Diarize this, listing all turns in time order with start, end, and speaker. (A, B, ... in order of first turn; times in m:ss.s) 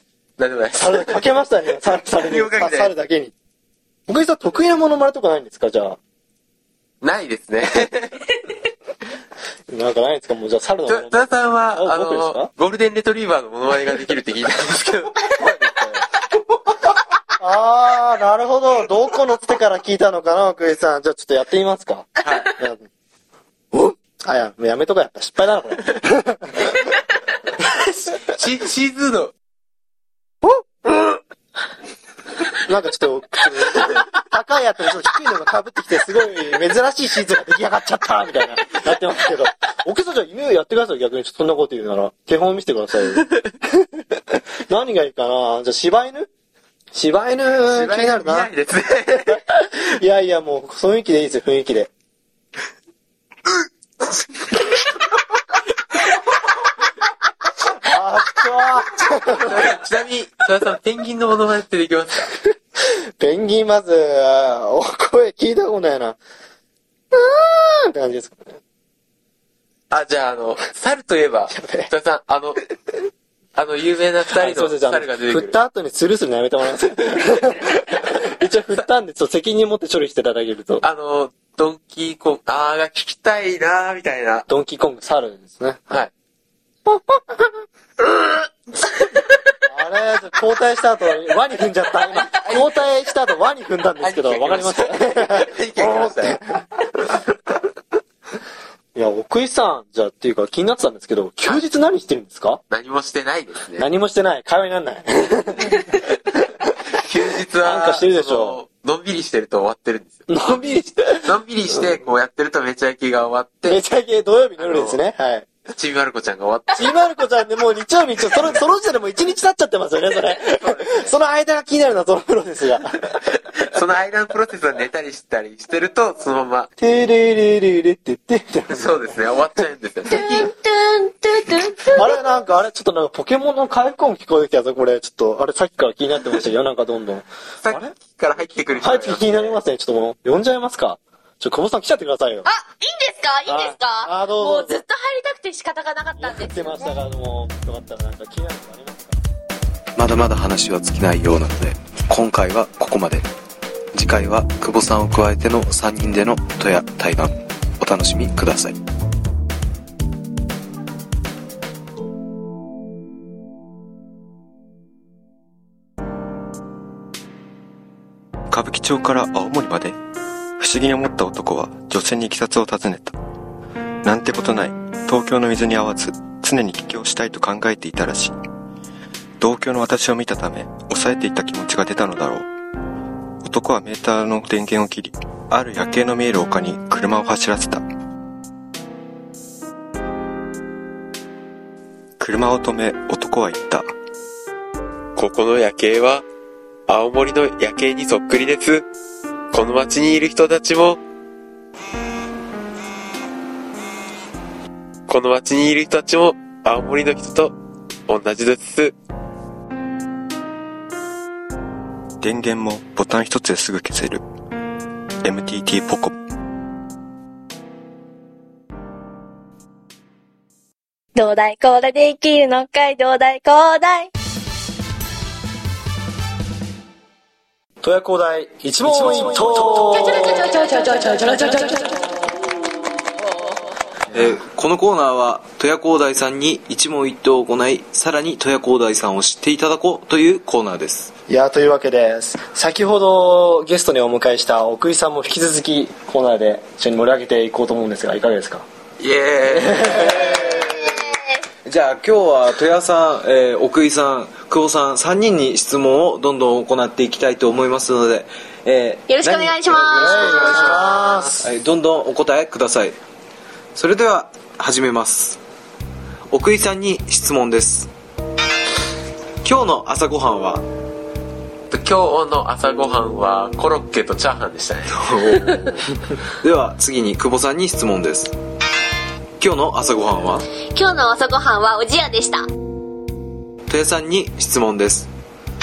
0:00.4-0:02.9 A
0:00.8-0:03.3 B
0:04.1-0:06.0 B
0:07.0-0:08.3 A
0:09.7-0:12.5 B
0:10.9-0:16.1 A
0:17.4-0:22.9 B
0:22.2-0:22.5 A
0:23.7-0:26.8 B
0:28.2-0:29.3 A
0:32.6-0:43.9 B
0:44.7-0:46.3 B
0:46.9-0:48.5 B
0:47.6-0:49.4 A
0:49.4-0:51.9 B
0:57.8-0:59.8 B
0:59.4-1:02.3 A
1:02.8-1:06.2 B
1:07.1-1:08.6 B
1:09.9-1:12.6 A
1:11.5-1:11.9 B
1:13.6-1:15.6 A
1:14.3-1:20.8 B
1:20.8-1:24.5 A
1:24.5-1:26.0 B
1:29.7-1:37.2 B
1:32.3-1:32.8 A
1:34.0-1:36.4 A
1:39.0-1:42.6 B
1:42.7-1:43.9 A
1:43.8-1:46.2 B
1:46.9-1:50.6 A
1:47.6-1:48.6 B
1:50.3-1:51.3 B
1:51.2-1:53.8 A
1:53.7-1:55.5 B
1:54.6-1:55.0 A
1:55.7-1:57.0 A
1:56.8-2:03.2 B
1:58.3-1:58.6 A
2:00.6-2:01.1 A
2:03.6-2:06.7 A
2:06.8-2:09.2 B
2:08.7-2:10.5 A
2:10.1-2:12.1 C
2:10.2-2:10.4 B
2:11.9-2:17.9 B
2:17.6-2:19.6 A
2:18.8-2:22.5 B
2:22.4-2:27.0 C
2:23.5-2:24.8 B
2:26.2-2:29.2 B
2:30.0-2:33.3 D
2:33.9-2:38.8 D
2:48.5-2:50.0 E
2:50.6-2:53.2 E
2:54.0-2:58.4 E
2:59.4-3:02.5 E
3:03.4-3:07.8 E
3:12.2-3:13.9 E
3:15.2-3:16.2 A
3:16.9-3:18.9 A
3:19.5-3:21.0 A
3:25.1-3:27.5 A
3:28.1-3:29.0 A
3:32.2-3:34.2 E
3:35.2-3:36.2 E
3:41.2-3:44.1 F
3:47.8-3:50.5 B
3:48.9-3:49.7 D
3:49.8-3:52.1 C
3:54.1-4:01.1 D
4:01.3-4:08.6 B
4:09.0-4:10.8 A
4:09.5-4:10.9 B
4:11.6-4:23.0 D
4:19.1-4:20.8 C
4:20.0-4:21.5 B
4:20.9-4:21.3 A
4:23.8-4:25.4 D
4:26.3-4:27.9 D
4:29.4-4:30.6 D
4:31.7-4:35.7 A
4:34.9-4:35.8 D
4:36.4-4:38.4 D
4:39.4-4:40.5 D
4:40.7-4:42.5 C
4:43.7-4:45.1 D